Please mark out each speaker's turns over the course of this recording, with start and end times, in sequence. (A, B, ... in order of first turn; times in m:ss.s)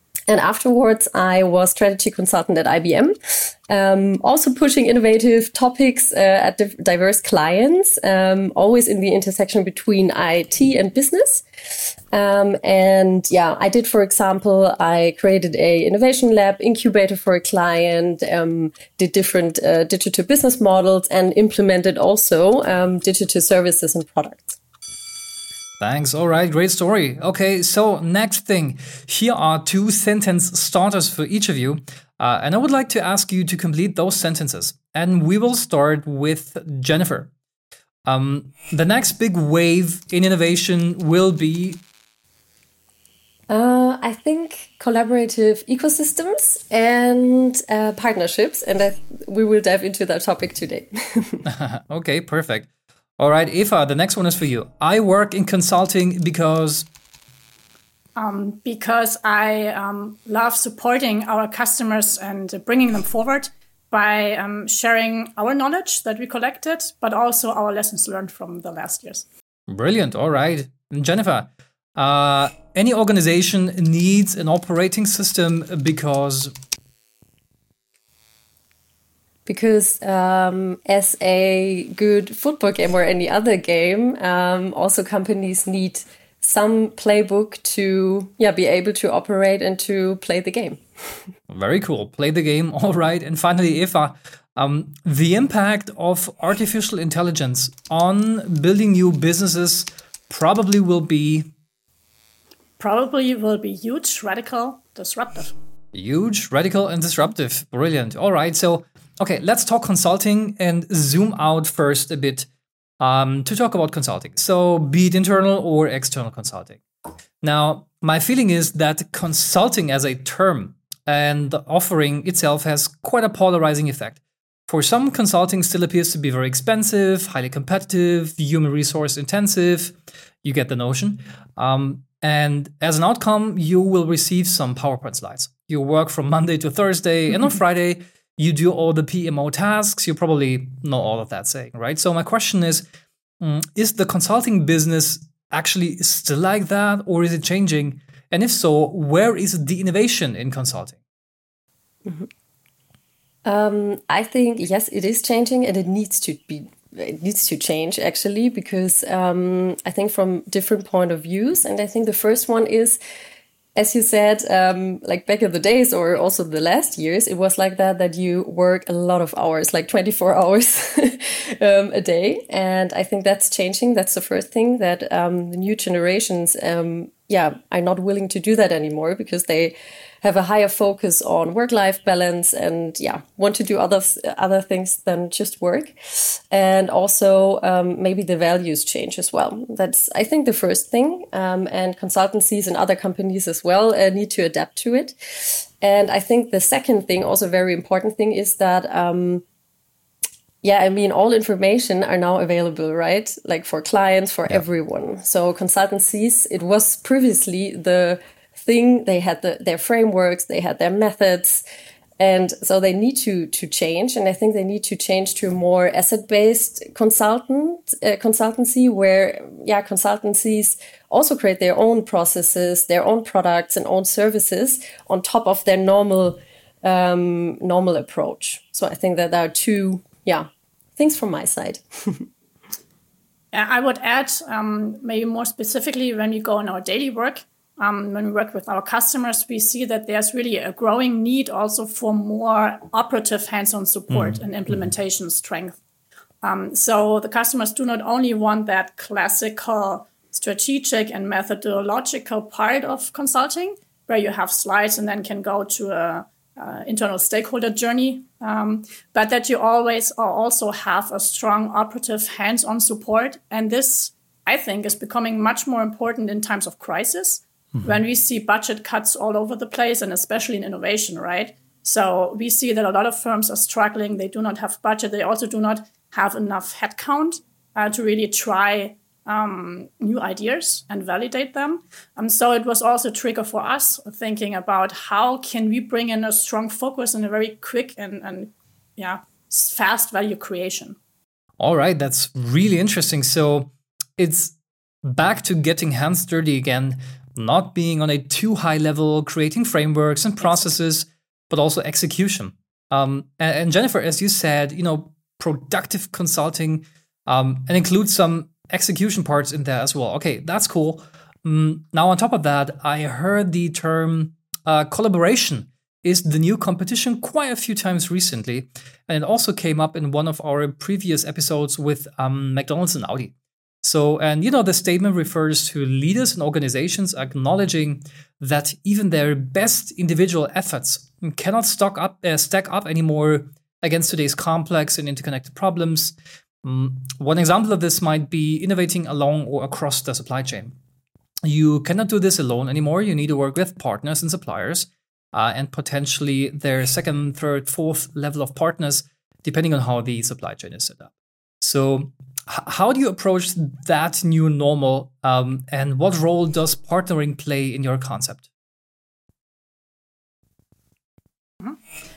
0:00.3-0:24.6 A
0:25.8-0:37.3 B
0:38.0-0:41.8 B
0:43.5-0:51.4 A
0:51.4-0:52.7 B
0:53.2-0:56.9 B
0:58.2-1:09.2 C
1:09.7-1:16.5 B
1:19.4-1:31.2 A
1:31.5-1:41.5 B
1:42.8-1:45.5 C
1:45.9-1:52.5 B
1:53.0-1:56.8 B
1:57.4-2:22.8 B
2:23.4-2:31.0 B
2:33.4-2:43.0 A
2:43.8-3:19.4 A
3:20.6-3:31.6 A
3:32.2-3:52.2 A
3:53.5-4:05.8 C
4:06.4-4:51.0 C
4:51.6-5:40.7 B
5:00.4-5:00.7 C
5:41.4-5:58.4 B